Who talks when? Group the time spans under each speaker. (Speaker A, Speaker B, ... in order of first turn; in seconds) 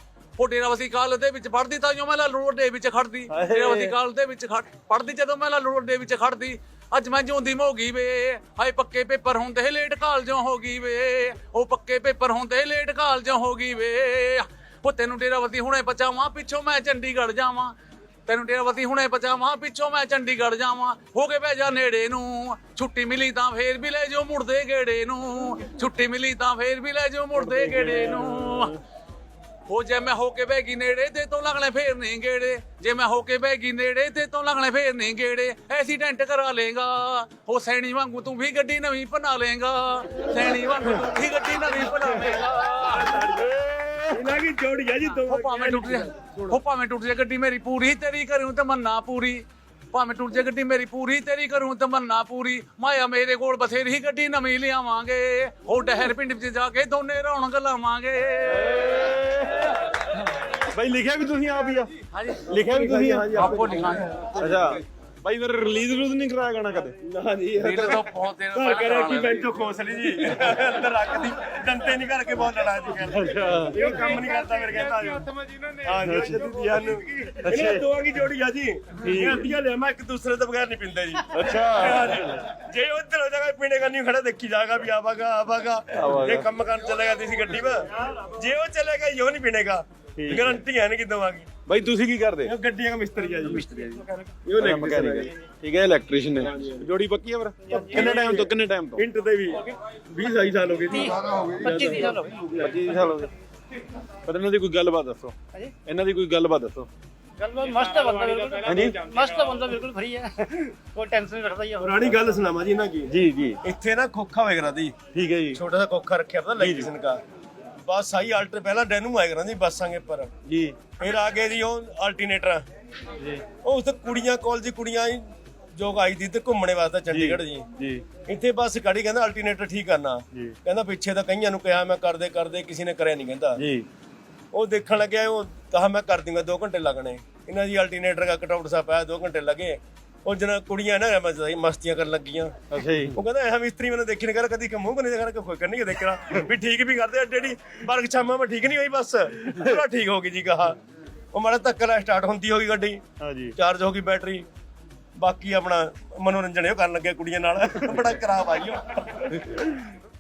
Speaker A: 0.4-17.7, 18.3-28.7, 29.7-43.2, 45.2-49.4, 49.9-59.1, 62.2-62.5, 63.3-64.4, 67.6-69.5
Speaker B: 3.3-4.0, 27.4-28.8, 43.4-44.2, 58.5-59.7, 60.6-61.9, 62.5-63.5, 64.3-67.0, 73.1-73.9, 76.0-77.8, 79.0-79.5, 81.3-82.3, 85.9-86.5, 90.2-90.6, 91.7-92.5, 93.4-94.0, 94.5-99.1, 102.6-103.3, 104.3-106.9, 108.7-109.0, 113.1-113.6, 115.1-115.6, 116.6-116.9, 120.5-120.8, 123.2-123.4, 127.1-128.1, 133.6-133.9, 142.7-143.2, 153.2-153.6
Speaker C: 42.8-43.5, 44.1-46.6, 62.5-64.8, 67.0-75.3, 75.8-91.5, 92.4-93.9, 94.4-95.3, 96.4-96.8, 97.7-102.8, 111.8-113.1, 113.6-115.0, 115.5-117.2, 117.8-120.3, 121.0-122.7, 123.6-127.7, 128.3-133.6, 134.5-142.6, 143.1-150.8, 151.3-153.0, 153.6-154.5, 155.2-159.4
Speaker D: 100.9-102.6, 107.4-112.4